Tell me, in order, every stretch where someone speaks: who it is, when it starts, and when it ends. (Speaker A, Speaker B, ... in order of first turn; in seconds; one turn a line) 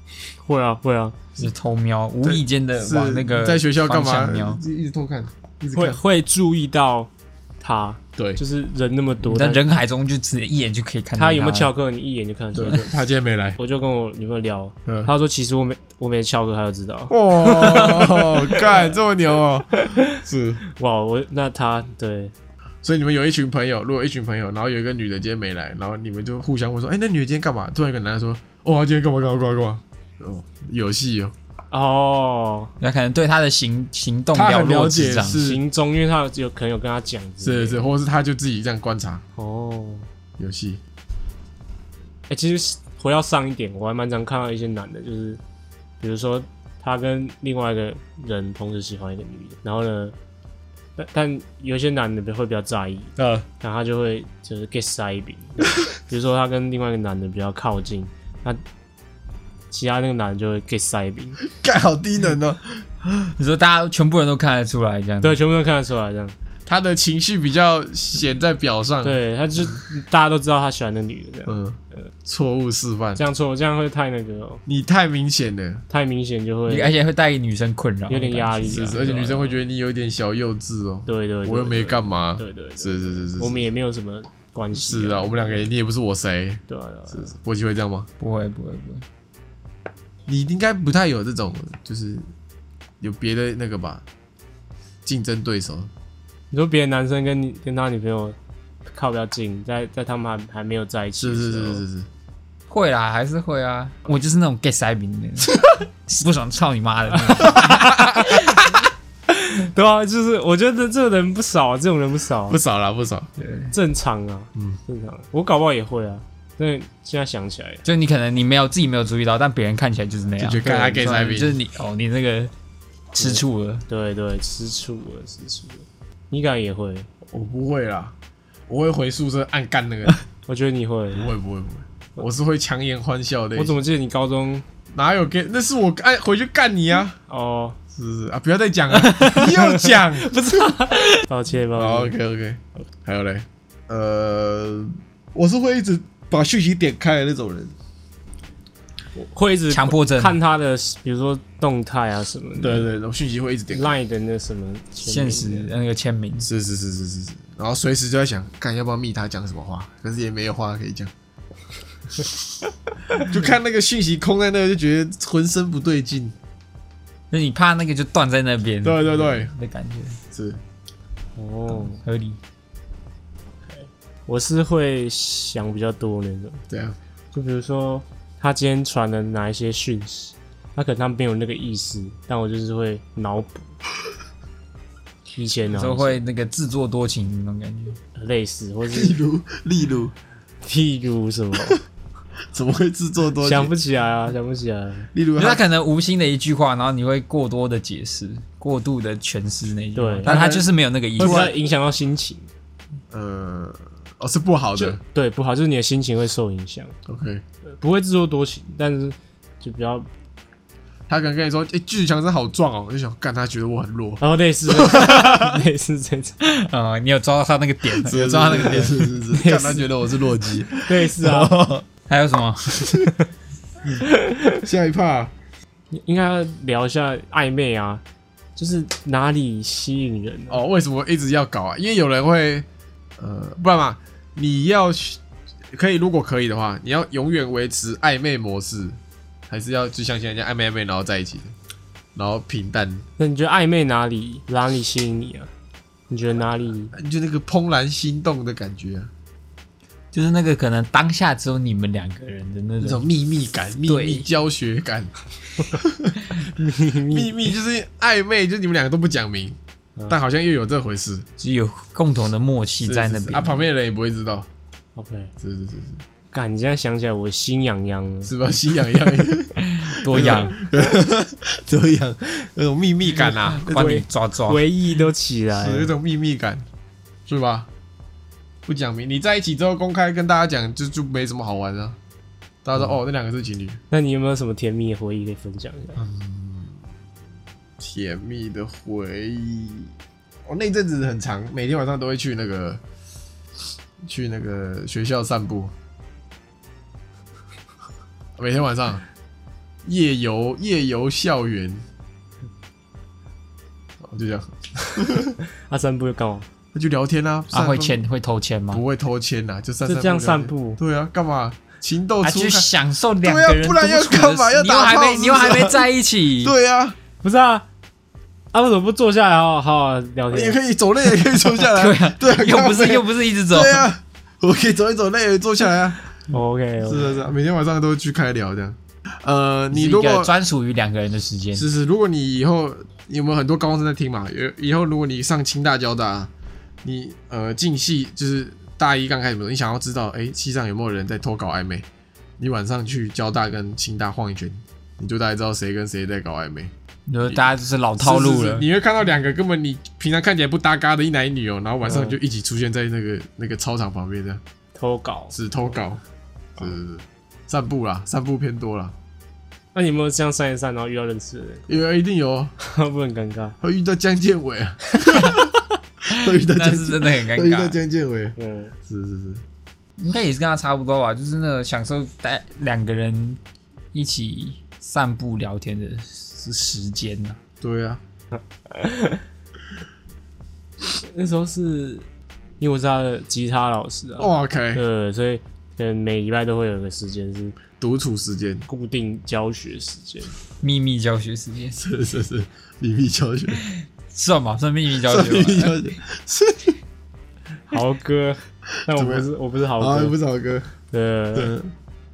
Speaker A: 0.4-1.2
Speaker B: 1.4-4.6
Speaker C: 2.2-6.0
Speaker A: 5.7-7.1
Speaker A: 7.6-9.6
Speaker B: 9.2-11.7
Speaker A: 11.2-12.8
Speaker C: 12.5-13.6
Speaker A: 13.6-18.9
Speaker C: 14.8-15.1
Speaker C: 17.1-20.6
Speaker A: 19.7-22.3
Speaker C: 22.8-31.3
Speaker A: 31.7-32.7
Speaker B: 32.8-35.4
Speaker C: 34.3-35.6
Speaker A: 35.4-37.8
Speaker C: 37.4-39.2
Speaker A: 39.4-40.1
Speaker C: 40.4-40.8
Speaker A: 42.3-45.4
Speaker A: 46.0-50.1
Speaker A: 51.0-58.6
Speaker C: 53.2-53.5
Speaker A: 59.7-61.4
Speaker C: 61.5-63.3
Speaker B: 63.4-65.4
Speaker A: 65.2-66.3
Speaker C: 66.7-69.2
Speaker A: 69.0-72.1
Speaker C: 71.5-73.2
Speaker A: 73.2-74.6
Speaker C: 74.7-75.8
Speaker A: 75.9-76.9
Speaker B: 76.7-79.3
Speaker A: 78.1-79.6
Speaker C: 78.6-83.7
Speaker A: 81.1-85.6
Speaker C: 84.7-88.1
Speaker A: 86.7-87.3
Speaker B: 88.2-89.0
Speaker C: 90.3-92.3
Speaker C: 93.0-94.0
Speaker C: 95.0-95.9
Speaker A: 96.5-101.8
Speaker C: 101.2-102.1
Speaker B: 102.7-108.6
Speaker C: 107.3-108.8
Speaker A: 109.3-112.6
Speaker C: 112.5-113.3
Speaker B: 113.4-113.7
Speaker A: 113.7-117.8
Speaker B: 117.8-122.5
Speaker C: 120.4-121.6
Speaker B: 123.1-123.8
Speaker A: 123.2-127.1
Speaker C: 127.2-128.1
Speaker C: 128.7-130.2
Speaker A: 130.5-131.3
Speaker C: 131.1-133.8
Speaker A: 133.6-134.6
Speaker C: 134.9-137.2
Speaker A: 137.3-137.8
Speaker C: 137.9-140.3
Speaker A: 139.0-142.1
Speaker C: 141.8-147.7
Speaker A: 149.1-152.9
Speaker B: 149.7-150.4
Speaker C: 152.6-153.9
Speaker A: 153.7-155.7
Speaker B: 155.0-156.5
Speaker C: 156.4-161.1
Speaker C: 163.1-166.3
Speaker B: 167.3-170.2
Speaker C: 168.8-169.5
Speaker C: 170.3-170.6
Speaker A: 171.3-172.0
Speaker B: 171.9-172.4
Speaker A: 173.7-176.6
Speaker C: 176.7-176.9
Speaker A: 177.3-183.7
Speaker A: 185.3-186.2
Speaker B: 185.8-188.0
Speaker A: 188.1-189.2
Speaker C: 188.9-190.1
Speaker A: 190.6-191.8
Speaker C: 192.5-193.7
Speaker A: 193.4-195.1
Speaker C: 195.1-195.6
Speaker B: 195.4-201.5
Speaker A: 199.9-200.4
Speaker C: 200.2-201.5
Speaker A: 201.2-202.5
Speaker C: 203.1-205.0
Speaker A: 204.8-206.9
Speaker C: 207.1-207.4
Speaker A: 207.8-210.1
Speaker C: 211.1-215.6
Speaker A: 214.2-216.4
Speaker B: 216.4-219.1
Speaker C: 217.9-221.8
Speaker A: 219.3-219.9
Speaker A: 220.8-221.6
Speaker B: 222.1-223.1
Speaker A: 223.9-224.6
Speaker C: 224.6-225.3
Speaker A: 225.9-228.0
Speaker A: 228.6-230.6
Speaker C: 230.5-232.7
Speaker C: 233.2-235.2
Speaker C: 235.7-239.0
Speaker C: 239.5-241.5
Speaker C: 242.1-243.1
Speaker A: 243.2-245.5
Speaker A: 246.1-246.9
Speaker C: 246.9-249.1
Speaker B: 250.1-253.1
Speaker C: 252.8-255.1
Speaker B: 253.9-254.2
Speaker C: 255.7-256.2
Speaker A: 256.3-257.3
Speaker C: 257.0-259.6
Speaker C: 260.1-261.2
Speaker B: 261.4-263.6
Speaker C: 262.8-264.5
Speaker A: 264.9-265.3
Speaker C: 265.4-266.0
Speaker A: 266.3-268.3
Speaker C: 268.2-273.7
Speaker B: 269.6-270.6
Speaker B: 273.3-274.6
Speaker A: 273.5-275.9
Speaker C: 275.5-276.6
Speaker C: 277.3-277.7
Speaker C: 278.6-282.0
Speaker C: 282.6-283.8
Speaker A: 283.9-286.0
Speaker C: 285.9-286.8
Speaker C: 287.8-289.9
Speaker C: 290.4-292.8
Speaker C: 294.0-295.7
Speaker C: 298.4-299.0
Speaker C: 299.8-301.8
Speaker C: 304.0-305.4
Speaker A: 305.6-306.5
Speaker C: 306.7-308.0
Speaker B: 307.5-308.8
Speaker C: 308.7-312.7
Speaker A: 309.9-310.8
Speaker B: 312.2-316.5
Speaker C: 313.2-315.9
Speaker C: 316.4-316.9
Speaker A: 317.2-317.6
Speaker A: 318.5-320.6
Speaker C: 320.3-326.0
Speaker B: 321.6-323.9
Speaker A: 326.3-327.1
Speaker C: 326.8-330.3
Speaker B: 329.7-331.6
Speaker C: 331.5-336.3
Speaker C: 336.8-341.9
Speaker C: 342.4-346.7
Speaker B: 347.1-348.7
Speaker C: 348.0-354.4
Speaker A: 351.8-352.2
Speaker A: 354.7-355.4
Speaker C: 355.3-356.0
Speaker C: 356.6-358.9
Speaker A: 359.7-361.7
Speaker C: 361.7-362.5
Speaker A: 362.6-363.6
Speaker C: 363.6-369.4
Speaker B: 365.1-365.4
Speaker B: 366.1-367.8
Speaker A: 368.4-368.7
Speaker B: 370.0-373.4
Speaker B: 373.9-377.4
Speaker C: 377.6-378.0
Speaker A: 378.7-379.2
Speaker A: 381.0-382.1
Speaker A: 382.6-387.6
Speaker C: 384.2-384.8
Speaker C: 387.8-388.6
Speaker A: 388.7-390.3
Speaker B: 390.6-391.8
Speaker C: 391.8-393.6
Speaker B: 393.6-395.8
Speaker C: 394.9-396.8
Speaker A: 397.7-400.2
Speaker C: 398.9-400.7
Speaker A: 400.9-401.5
Speaker C: 401.3-401.7